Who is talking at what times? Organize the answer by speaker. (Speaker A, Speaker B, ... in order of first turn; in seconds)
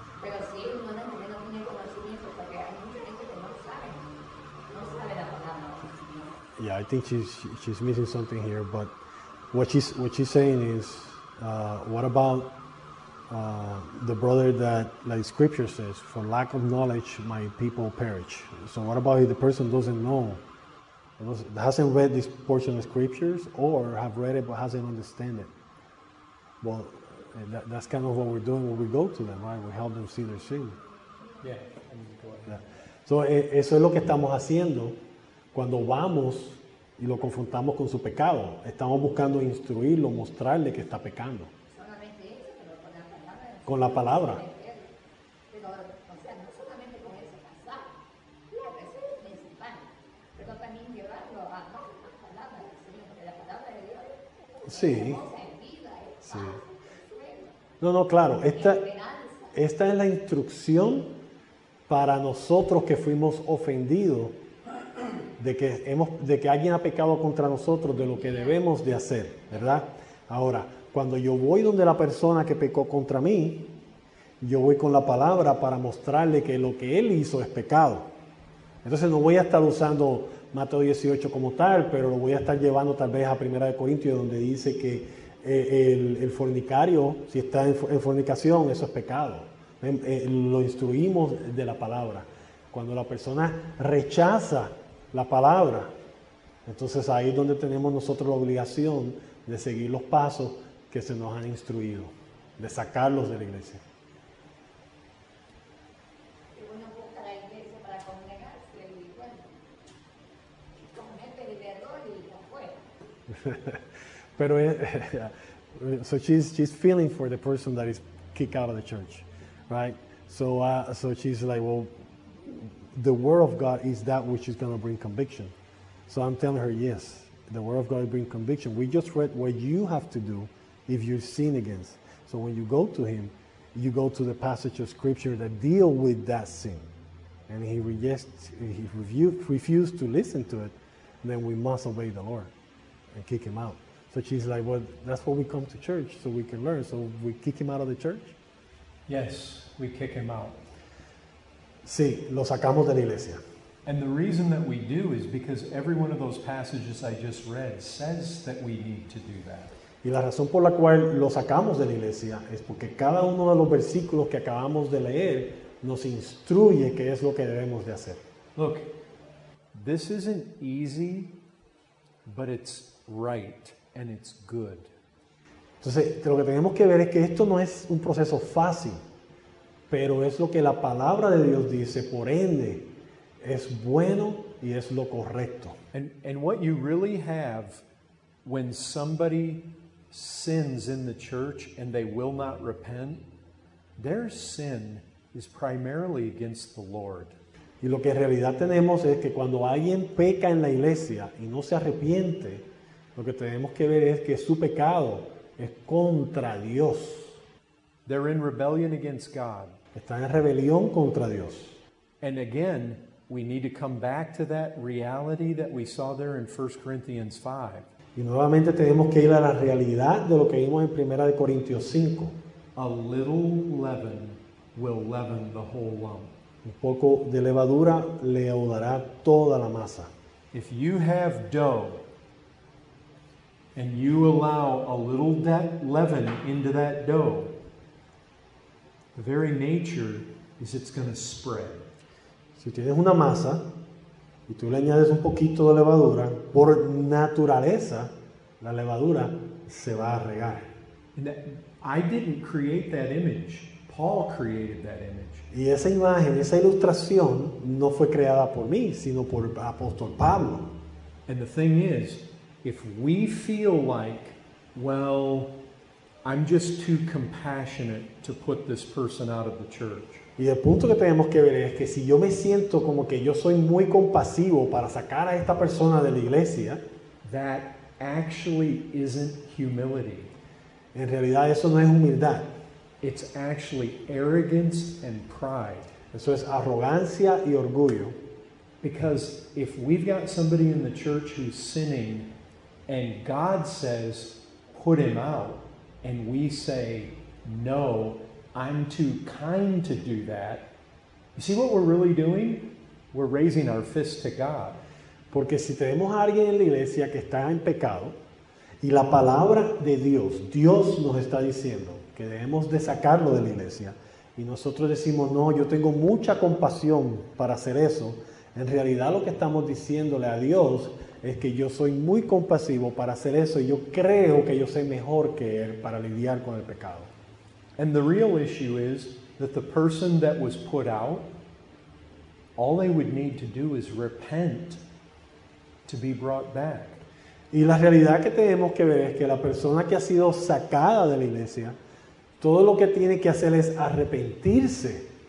Speaker A: 0.2-4.1, 4.7-6.4, 41.7-44.9, 45.5-47.9, 48.5-57.6, 58.5-59.5, 68.1-68.6, 69.5-69.8, 106.5-109.5, 110.8-112.8
Speaker B: 6.6-8.9, 9.5-12.5, 13.3-20.4, 21.2-25.5, 26.6-30.8, 32.5-35.0, 35.5-41.5, 43.6-44.4, 54.6-55.2, 56.2-56.6, 57.8-58.8, 59.5-61.1, 61.9-64.4, 65.4-73.7, 74.4-78.1, 78.8-95.9, 96.7-103.8, 113.3-113.8, 114.4-121.9, 122.5-125.5, 126.1-136.9, 137.5-142.5, 143.1-148.3, 151.8-153.4, 160.0-168.2, 175.8-179.0, 179.9-182.9, 183.4-185.8, 197.8-202.6, 203.1-207.4, 209.9-211.8, 218.2-222.4, 226.6-230.1, 242.6-243.7, 244.5-250.7, 255.5-260.7, 270.4-276.8, 280.9-282.5, 286.1-288.2, 305.3-308.1, 308.8-327.1, 337.5-341.8, 342.4-345.1
Speaker C: 31.4-32.6, 149.1-150.6, 153.8-159.7, 168.6-168.9, 169.7-171.3, 172.2-174.9, 185.9-187.8, 188.4-193.2, 194.0-197.3, 208.1-209.8, 212.2-217.9, 222.8-226.3, 230.5-232.0, 233.7-237.5, 239.1-241.8, 251.1-255.5, 261.3-265.5, 266.2-270.2, 277.2-280.3, 283.0-285.9, 288.8-292.3, 292.9-300.7, 301.3-304.8, 327.8-331.3, 332.6-334.8, 335.9-337.0